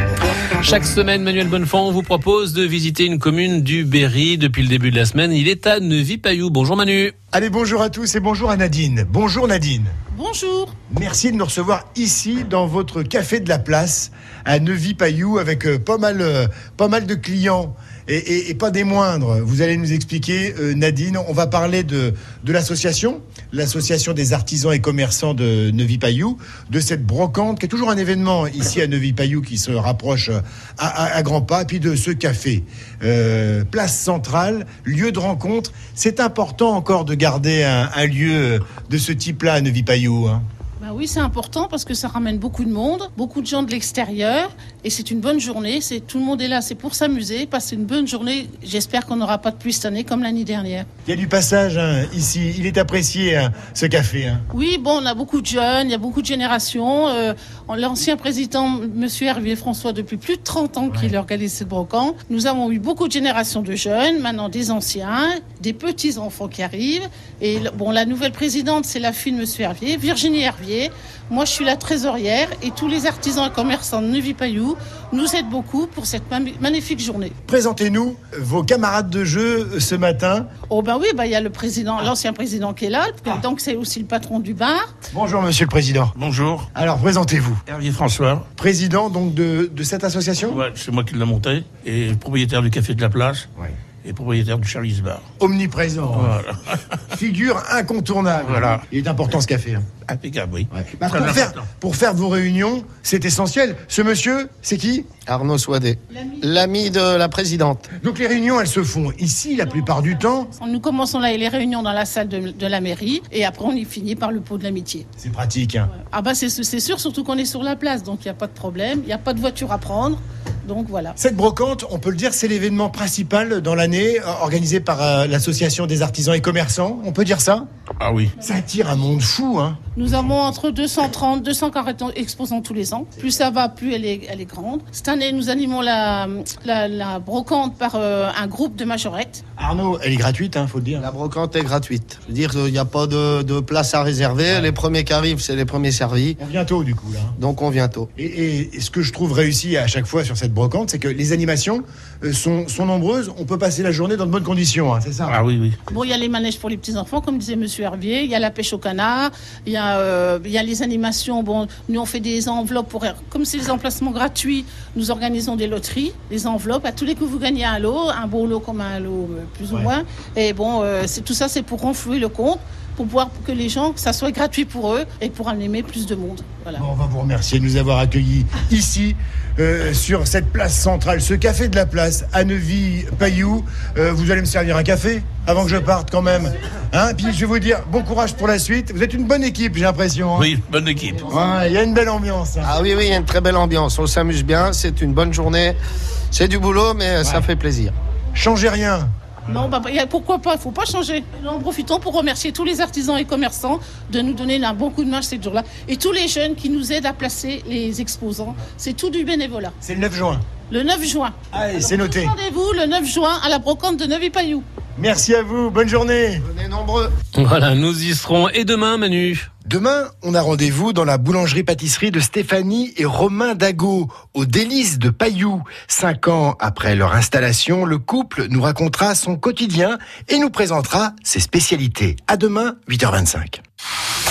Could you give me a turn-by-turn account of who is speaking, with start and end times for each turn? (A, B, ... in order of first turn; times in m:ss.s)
0:00.6-0:07.1 A
0:07.3-0:09.9 B
0:10.1-0:10.7 C
0:10.9-0:40.4 B
0:40.8-0:50.9 C
0:51.0-0:54.4 B
0:54.5-1:17.4 C
1:17.4-1:20.5 B
1:20.7-1:24.9 C
1:25.1-1:26.1 B
1:26.2-1:26.7 D
1:26.7-1:27.6 B
1:27.7-1:28.5 D
1:28.6-1:30.6 B
1:30.5-1:33.5 D
1:34.0-1:35.2 D
1:35.4-1:36.4 B
1:36.1-1:36.8 D
1:37.1-1:39.9 B
1:38.4-1:38.8 D
1:40.1-1:41.6 D
1:40.7-1:45.1 B
1:45.2-1:47.9 E
1:48.0-1:50.5 B
1:50.5-1:55.1 C
1:55.2-1:55.9 B
1:55.9-2:01.2 C
2:01.2-2:07.6 B
2:08.0-2:08.3 D
2:08.4-2:10.2 B
2:09.9-2:19.4 C
2:19.6-2:21.1 B
2:21.0-2:26.4 E
2:26.4-2:27.4 B
2:27.4-2:28.1 E
2:28.2-2:35.4 B
2:35.3-2:35.8 D
2:35.9-2:56.8 C
2:56.8-3:10.5 B
3:10.4-3:11.2 D
3:11.2-3:12.8 B
3:12.6-3:15.8 E
3:16.3-3:17.9 E
3:17.2-3:17.5 B
3:18.3-3:19.1 B
3:19.5-3:29.8 C
3:29.8-3:30.4 B
3:30.7-3:34.6 C
3:31.5-3:32.3 B
3:35.0-3:36.4 B
3:36.4-3:37.1 E
3:37.4-3:39.5 A
3:39.6-3:53.6 B